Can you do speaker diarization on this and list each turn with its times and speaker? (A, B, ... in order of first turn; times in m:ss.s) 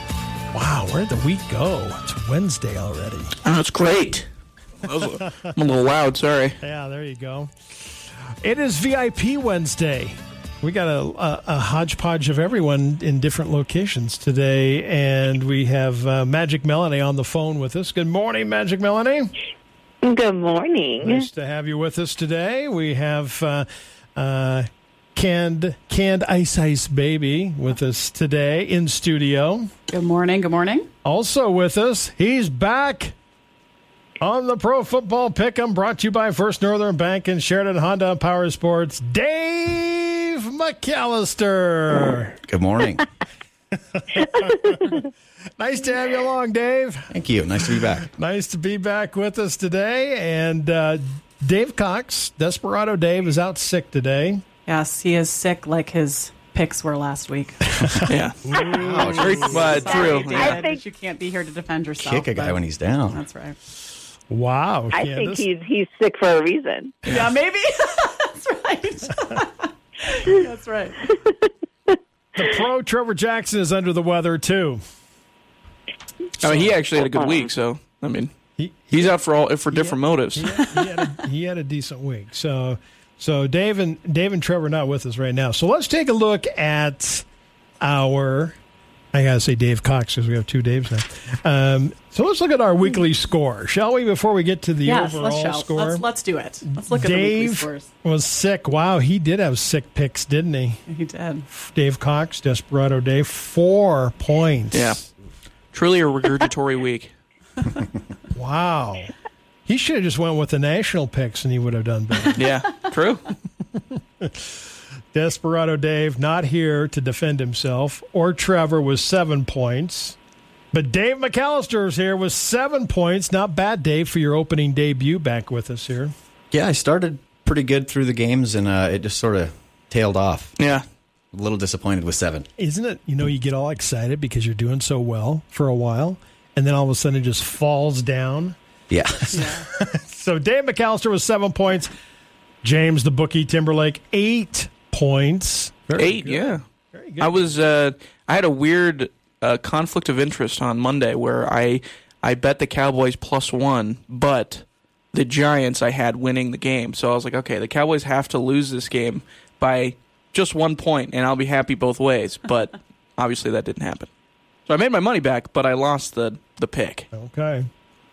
0:00.5-0:03.4 A
0:03.4-0:04.3 B
0:04.8-0:06.6 B
0:06.6-0:07.5 A
0:08.4-0:19.3 A
0:20.0-0:21.3 C
0:21.0-0:29.7 A
0:29.9-0:30.9 D
0:31.0-0:33.1 A
0:34.2-0:42.4 A
0:42.5-0:43.0 E
0:44.0-0:54.4 A
0:47.1-0:48.1 E
0:54.7-0:57.7 D
0:57.8-0:59.9 A
0:58.1-0:58.4 B
0:58.5-1:00.8 C
0:58.7-0:59.5 E
0:59.2-1:00.6 B
0:59.2-1:03.6 D
1:02.0-1:03.2 E
1:04.3-1:05.4 A
1:04.9-1:07.1 C
1:07.0-1:11.1 D
1:12.4-1:14.8 A
1:16.4-1:18.3 B
1:16.4-1:16.7 A
1:18.6-1:19.2 A
1:18.9-1:20.6 B
1:19.7-1:27.3 A
1:27.8-1:28.6 A
1:29.1-1:36.1 A
1:34.8-1:37.9 D
1:36.7-1:40.8 A
1:40.9-1:41.5 D
1:41.5-1:45.0 A
1:44.7-1:45.0 B
1:45.7-1:47.1 B
1:48.4-1:49.1 A
1:49.7-1:52.5 A
1:52.4-1:53.3 B
1:54.2-1:54.5 A
1:55.1-2:00.2 A
2:00.7-2:06.1 A
2:06.5-2:10.5 E
2:10.6-2:10.8 B
2:11.3-2:12.5 E
2:12.6-2:18.6 A
2:18.9-2:19.3 E
2:19.2-2:21.9 A
2:19.3-2:19.7 D
2:22.6-2:27.5 A
2:26.0-2:26.6 B
2:27.2-2:44.1 B
2:44.7-2:47.1 B
2:47.1-2:47.7 A